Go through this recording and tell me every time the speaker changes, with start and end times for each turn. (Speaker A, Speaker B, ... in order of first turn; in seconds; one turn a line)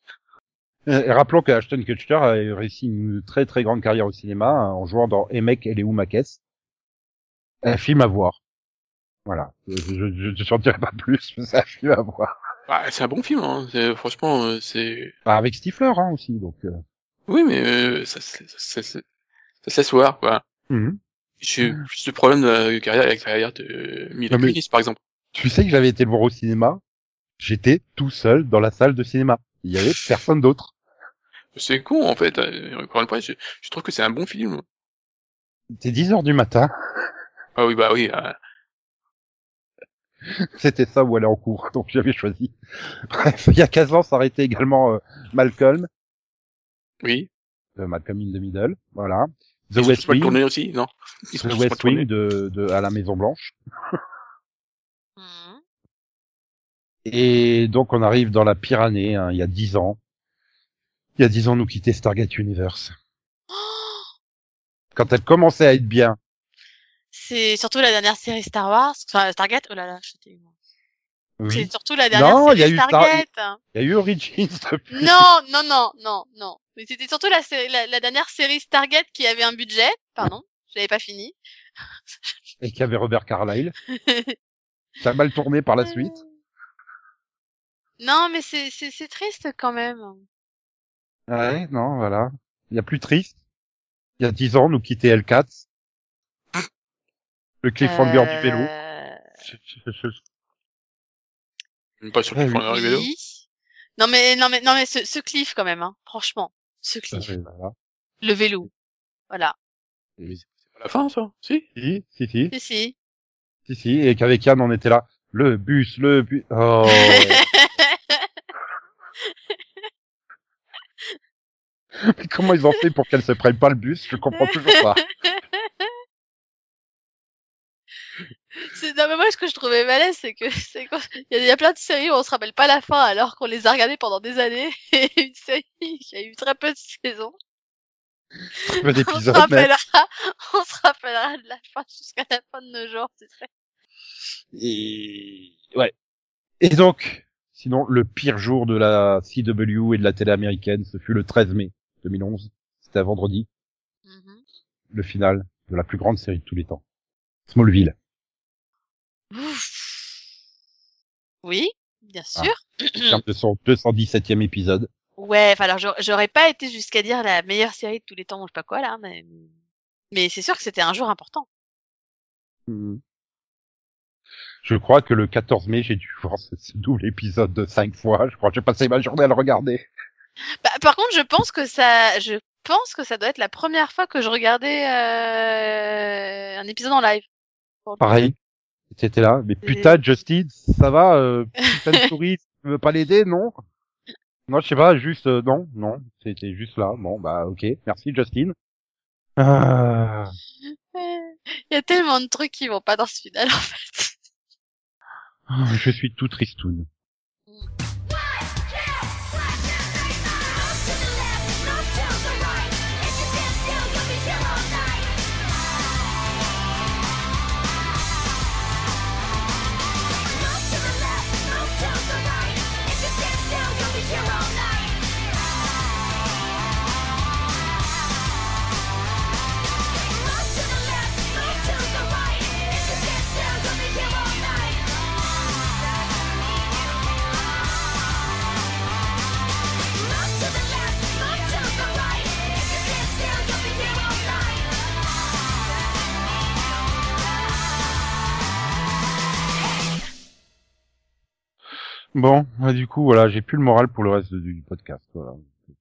Speaker A: 0.9-6.4
Speaker A: 7.6-8.4
Speaker A: 9.2-12.3
Speaker B: 12.7-15.1
Speaker A: 15.2-16.8
Speaker B: 17.3-19.0
Speaker B: 19.6-20.4
Speaker A: 20.7-21.0
Speaker B: 21.4-25.0
Speaker A: 24.3-24.6
Speaker A: 25.3-26.8
Speaker A: 27.4-30.7
Speaker B: 31.5-34.6
Speaker A: 35.8-36.7
Speaker B: 37.5-38.4
Speaker A: 40.6-45.9
Speaker B: 47.0-47.3
Speaker A: 47.8-50.4
Speaker B: 49.8-52.1
Speaker A: 51.4-53.5
Speaker C: 55.2-55.6
Speaker A: 57.0-60.0
Speaker A: 61.2-62.9
Speaker C: 63.5-64.0
Speaker A: 64.9-66.2
Speaker C: 67.1-70.4
Speaker A: 71.4-75.2
Speaker C: 71.5-73.6
Speaker C: 74.9-81.3
Speaker A: 82.6-83.7
Speaker C: 83.9-84.3
Speaker A: 85.0-86.2
Speaker C: 85.8-86.2
Speaker C: 88.0-90.2
Speaker A: 91.3-93.3
Speaker A: 94.2-95.5
Speaker A: 97.6-98.7
Speaker C: 97.8-99.2
Speaker A: 99.5-100.2
Speaker B: 102.0-103.1
Speaker A: 102.3-102.6
Speaker C: 102.7-103.4
Speaker C: 104.0-107.3
Speaker A: 107.1-107.7
Speaker C: 108.2-108.7
Speaker B: 110.4-111.6
Speaker A: 111.8-112.5
Speaker C: 112.5-112.9
Speaker A: 113.7-117.4
Speaker C: 116.9-118.2
Speaker C: 119.3-119.8
Speaker A: 122.0-125.0
Speaker C: 124.4-125.9
Speaker C: 128.6-137.3
Speaker C: 138.6-143.5
Speaker A: 138.7-139.7
Speaker A: 144.5-145.9
Speaker A: 146.6-153.5
Speaker C: 154.1-154.4
Speaker A: 154.9-156.8
Speaker A: 157.5-157.9
Speaker C: 159.3-160.1
Speaker C: 161.4-163.2
Speaker A: 163.0-164.9
Speaker C: 165.2-169.5
Speaker C: 170.1-171.4
Speaker A: 172.7-173.0
Speaker A: 174.6-179.8
Speaker C: 180.6-187.2
Speaker C: 187.8-188.3
Speaker A: 188.0-188.3
Speaker A: 188.9-193.6
Speaker C: 189.6-190.0
Speaker A: 194.5-198.5
Speaker A: 199.4-200.3
Speaker C: 200.9-204.2
Speaker A: 205.5-206.8
Speaker A: 252.1-255.4